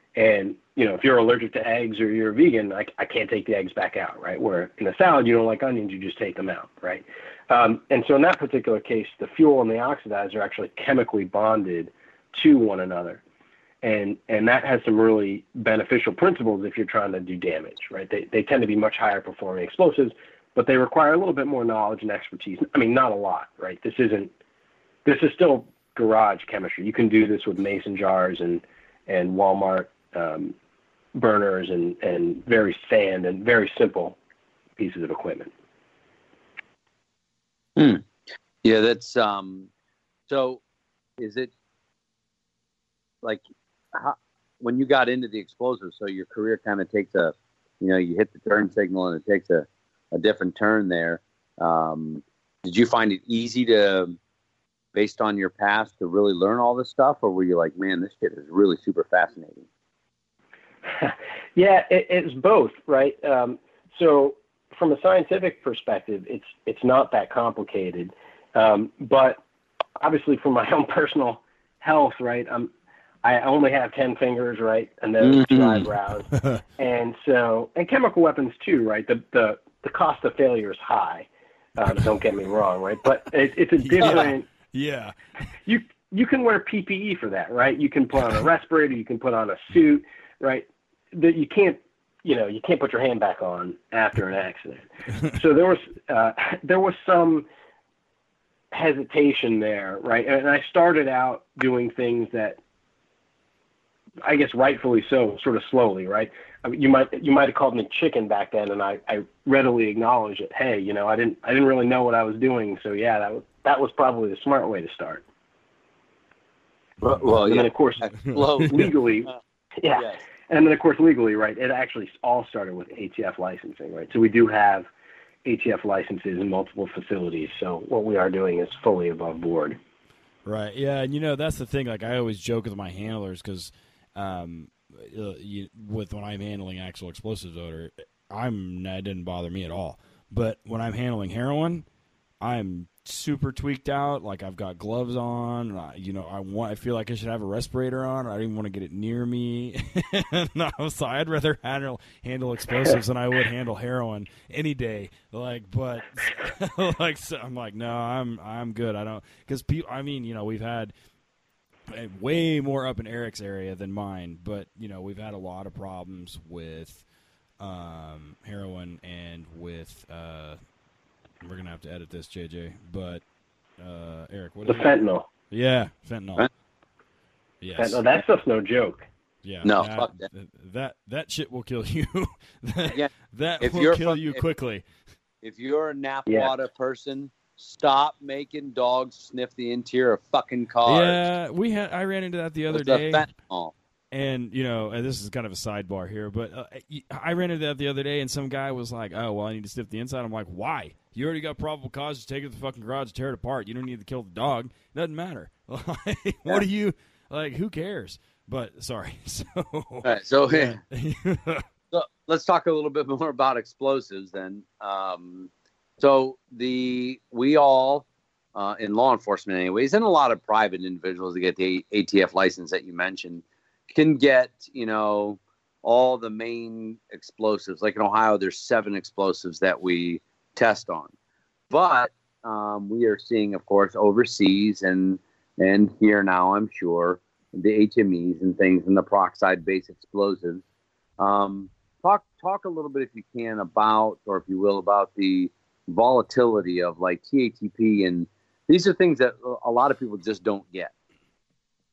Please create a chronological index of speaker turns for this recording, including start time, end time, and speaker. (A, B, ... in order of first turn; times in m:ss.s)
0:00.2-0:13.2 A
0:13.8-0:24.3 A
0:25.0-0:30.5 A
0:31.1-0:34.2 A
0:34.8-0:35.5 A
0:37.8-0:38.0 B
0:38.6-0:39.7 B
0:40.3-0:40.6 B
0:41.2-0:41.5 B
0:43.9-0:54.2 B
0:54.9-0:59.6 B
1:00.9-1:09.4 A
1:10.0-1:12.7 A
1:13.2-1:24.5 A
1:15.2-1:15.9 B
1:23.8-1:25.1 C
1:25.6-1:37.5 A
1:38.7-1:42.6 A
1:44.2-1:55.2 A
1:57.0-1:59.3 B
1:57.3-2:04.9 A
1:59.9-2:00.2 B
2:05.4-2:09.8 A
2:10.4-2:21.8 C
2:22.4-2:40.9 C
2:41.9-2:47.0 C
2:47.6-2:50.6 C
2:51.4-2:53.2 C
2:53.8-2:54.9 C
2:54.6-2:55.2 A
2:55.5-2:56.5 C
2:57.6-2:58.0 C
2:57.8-2:59.0 A
2:59.4-3:04.8 C
2:59.6-3:00.2 B
3:02.9-3:04.4 B
3:05.4-3:11.3 B
3:06.3-3:06.5 A
3:10.8-3:13.3 C
3:12.7-3:13.7 B
3:14.1-3:31.6 C
3:30.0-3:30.8 B
3:31.9-3:51.1 B
3:51.7-4:00.6 B
4:01.2-4:10.9 B